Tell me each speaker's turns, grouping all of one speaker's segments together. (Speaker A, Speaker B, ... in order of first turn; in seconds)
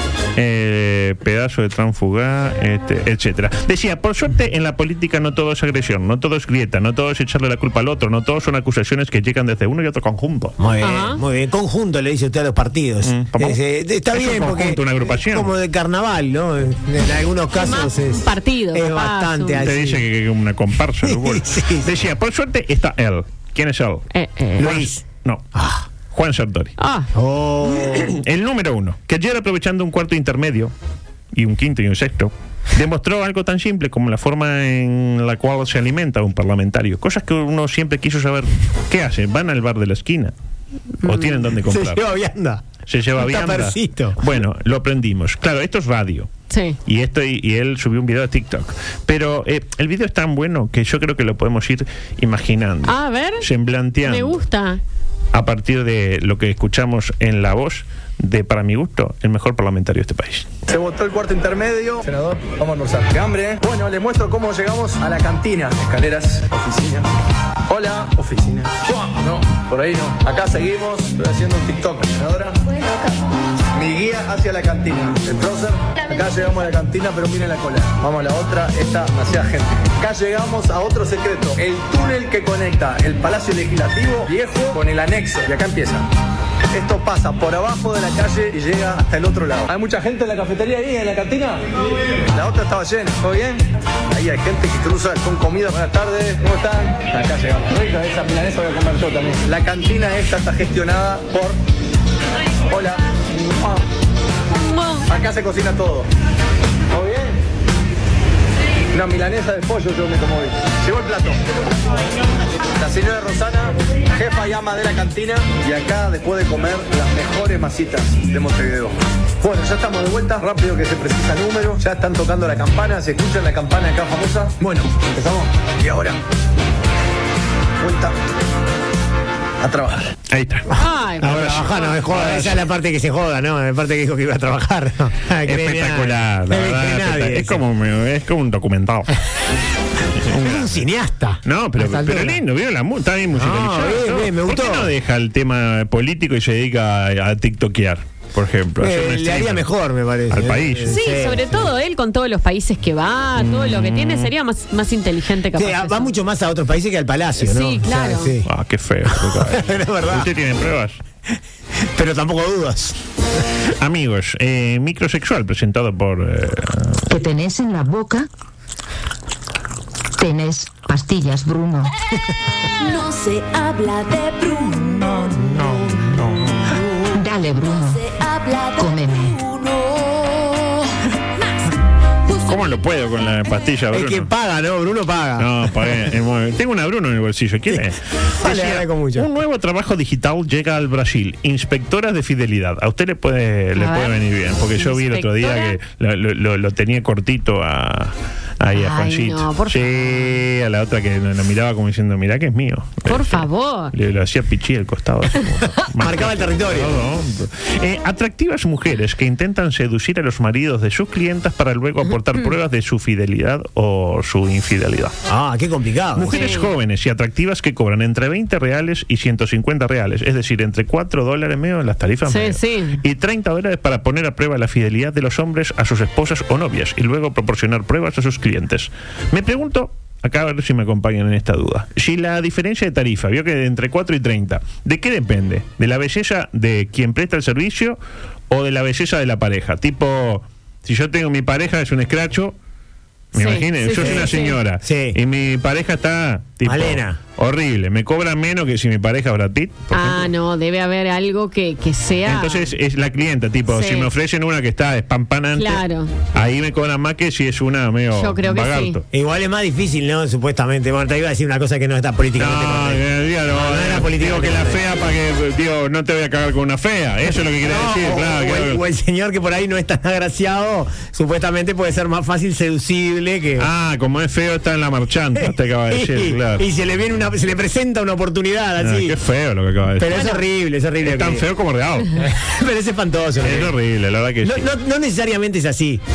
Speaker A: 0.3-10.5, 13.0-15.5, 19.6-24.0, 24.6-25.4, 26.1-26.7, 27.8-30.7, 31.3-40.3, 41.0-42.0, 42.9-46.3, 46.9-54.4, 55.3-60.5, 130.3-132.6, 135.4-139.2, 140.2-140.8, 141.4-149.7, 150.3-151.0, 153.4-154.3, 158.4-161.0, 163.8-167.0, 175.5-176.6, 182.4-184.3, 185.4-215.1, 216.1-238.0, 238.5-242.5, 243.3-250.3, 252.2-255.8, 256.3-259.0, 262.4-268.8, 273.6-276.6, 278.8-280.4, 281.0-282.3, 283.4-284.7
Speaker B: 10.6-20.0, 21.0-21.9, 24.6-25.0, 25.5-25.8, 27.1-28.2, 41.6-42.6, 43.1-44.2, 130.8-137.6, 140.3-142.4, 143.3-144.9, 148.8-151.5, 155.6-158.5, 159.1-160.3, 161.8-162.9, 183.9-186.1, 188.4-189.3, 205.9-207.0, 215.3-216.4, 243.9-245.2, 246.6-247.2, 259.1-264.8, 267.6-273.7, 275.4-279.2, 280.0-281.4, 282.2-283.7, 284.4-286.0
Speaker C: 10.8-11.2, 17.6-19.6, 24.1-24.7, 26.8-27.1, 41.0-41.4, 46.5-46.8, 52.9-53.4, 54.0-54.8, 104.5-105.1, 130.7-131.9, 150.9-156.1, 157.4-158.3, 193.8-194.2, 194.8-195.8, 198.7-200.3, 203.1-203.9, 216.3-216.7, 222.3-223.0, 243.3-244.6, 249.9-252.7, 253.7-254.1, 255.5-256.1, 258.1-259.0
Speaker D: 60.7-67.1, 67.7-72.6, 73.7-86.1, 86.7-101.6, 102.7-103.8, 105.1-106.1, 106.9-107.4, 108.9-111.4, 112.8-126.2, 127.8-128.1, 129.6-130.1
Speaker E: 167.1-168.3, 170.2-171.9, 177.1-178.0, 178.8-179.4
Speaker F: 172.8-176.1, 176.7-177.1, 178.0-180.9